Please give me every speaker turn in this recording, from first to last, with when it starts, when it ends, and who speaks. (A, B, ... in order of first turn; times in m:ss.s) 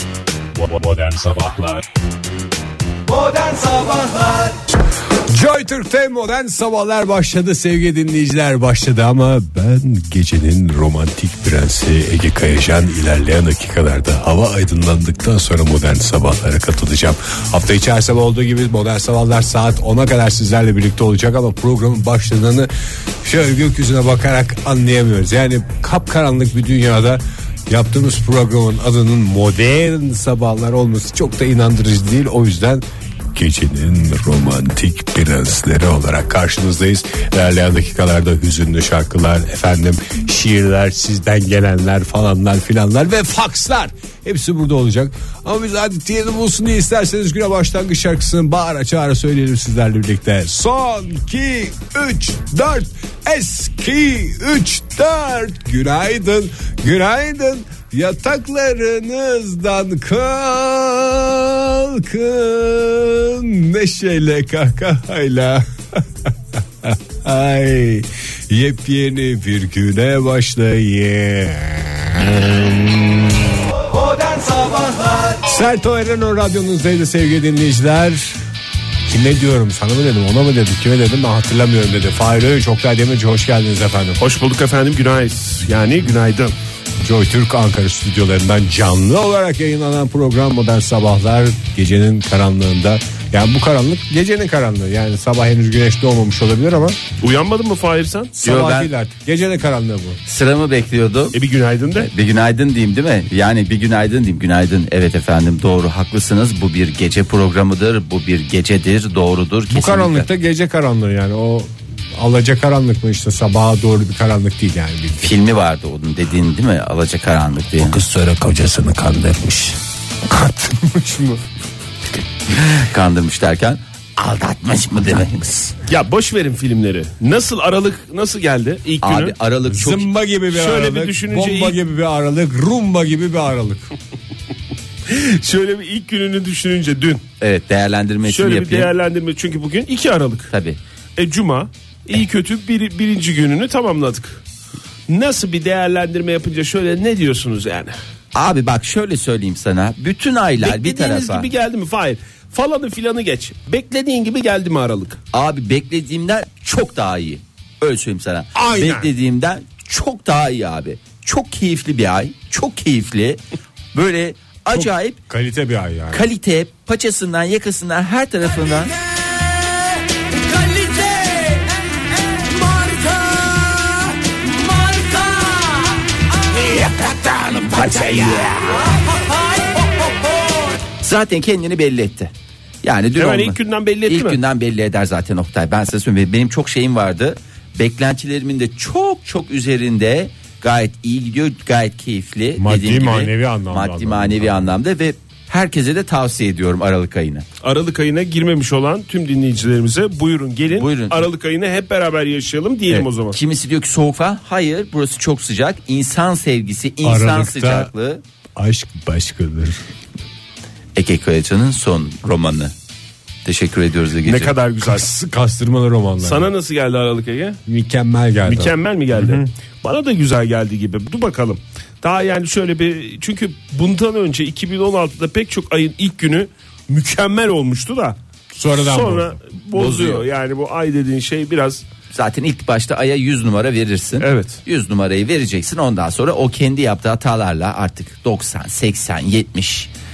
0:00.5-0:01.8 A
0:03.1-0:04.6 B
0:05.3-0:22.7 A
0:23.2-1:06.0 A
1:06.8-1:13.6 A
1:13.9-1:15.4 B
1:15.4-1:18.4 A
1:19.1-1:24.2 A
1:24.2-1:26.5 C
1:27.0-1:37.0 A
1:37.2-1:38.4 C
1:38.4-1:40.2 A
1:38.4-1:38.9 D
1:40.2-1:41.4 D
1:41.3-1:42.1 C
1:42.0-1:50.3 D
1:49.7-1:55.3 A
1:55.2-1:58.0 D
1:57.8-2:01.4 A
2:02.5-2:05.7 D
2:05.9-2:09.4 C
2:09.0-2:10.1 D
2:09.7-2:13.9 A
2:10.5-2:11.8 C
2:15.1-2:17.2 C
2:17.4-2:18.9 D
2:18.2-2:20.5 C
2:20.5-2:20.8 D
2:21.2-2:24.4 C
2:25.1-2:27.9 C
2:28.3-2:31.5 D
2:30.6-2:35.2 C
2:35.3-2:43.4 D
2:38.5-2:39.1 A
2:43.9-2:45.2 D
2:44.7-2:46.2 A
2:46.1-2:48.9 D
2:50.5-2:51.6 B
2:52.5-2:53.4 B
2:54.8-2:55.7 B
2:56.6-2:58.9 D
3:01.0-3:17.4 D
3:03.2-3:04.4 C
3:12.6-3:14.7 A
3:17.6-3:23.4 C
3:20.7-3:21.3 D
3:22.9-3:28.2 D
3:27.0-3:27.9 A
3:28.6-3:29.8 A
3:31.0-3:32.7 D
3:33.4-3:34.5 D
3:34.2-3:35.1 C
3:34.8-3:36.5 A
3:36.2-3:37.6 C
3:37.7-3:39.5 A
3:38.4-3:48.2 C
3:48.5-3:49.4 A
3:48.7-3:51.8 C
3:49.7-3:50.2 D
3:52.1-3:59.9 D
3:54.2-3:54.6 C